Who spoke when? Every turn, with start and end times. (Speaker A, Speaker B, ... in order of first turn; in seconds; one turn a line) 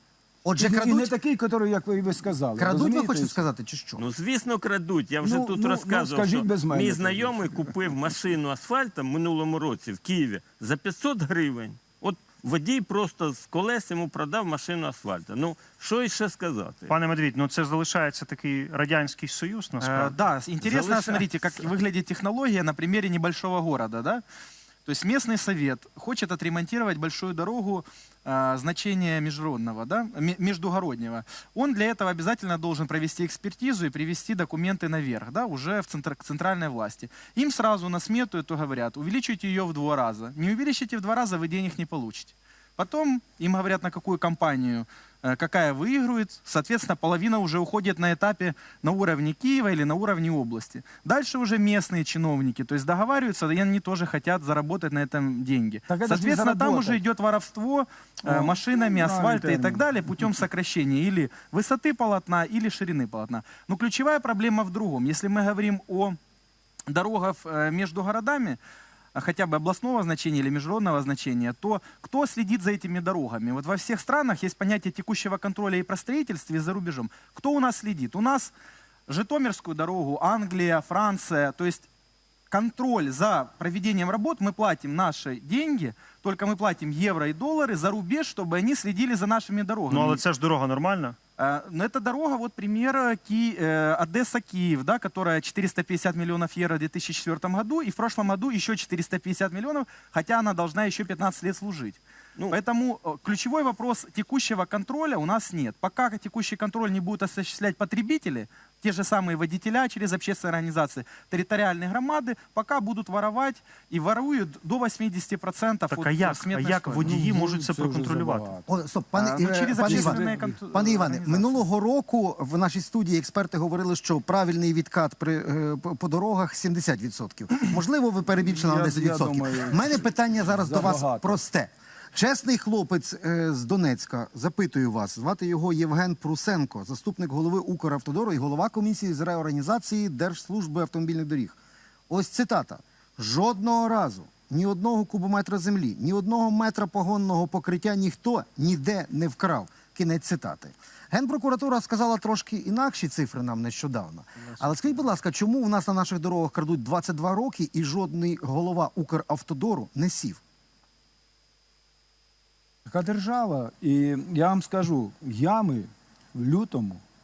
Speaker A: 0.4-1.1
Speaker B: 0.6-3.4
Speaker A: 2.6-4.1
Speaker C: 4.0-16.9
Speaker B: 5.2-7.7
Speaker D: 16.9-20.1
Speaker E: 19.8-24.2
Speaker C: 20.6-21.3
Speaker E: 24.9-66.2
Speaker B: 55.9-57.0
Speaker B: 58.3-60.2
Speaker E: 66.9-68.6
Speaker E: 69.2-78.5
Speaker E: 79.1-81.9
Speaker E: 82.5-90.2
Speaker D: 89.9-91.2
Speaker E: 91.4-117.1
Speaker D: 115.9-118.5
Speaker B: 117.0-118.7
Speaker A: 118.7-141.6
Speaker E: 119.2-121.6
Speaker B: 119.8-120.6
Speaker B: 128.3-131.4
Speaker A: 142.1-160.4
Speaker B: 162.9-167.0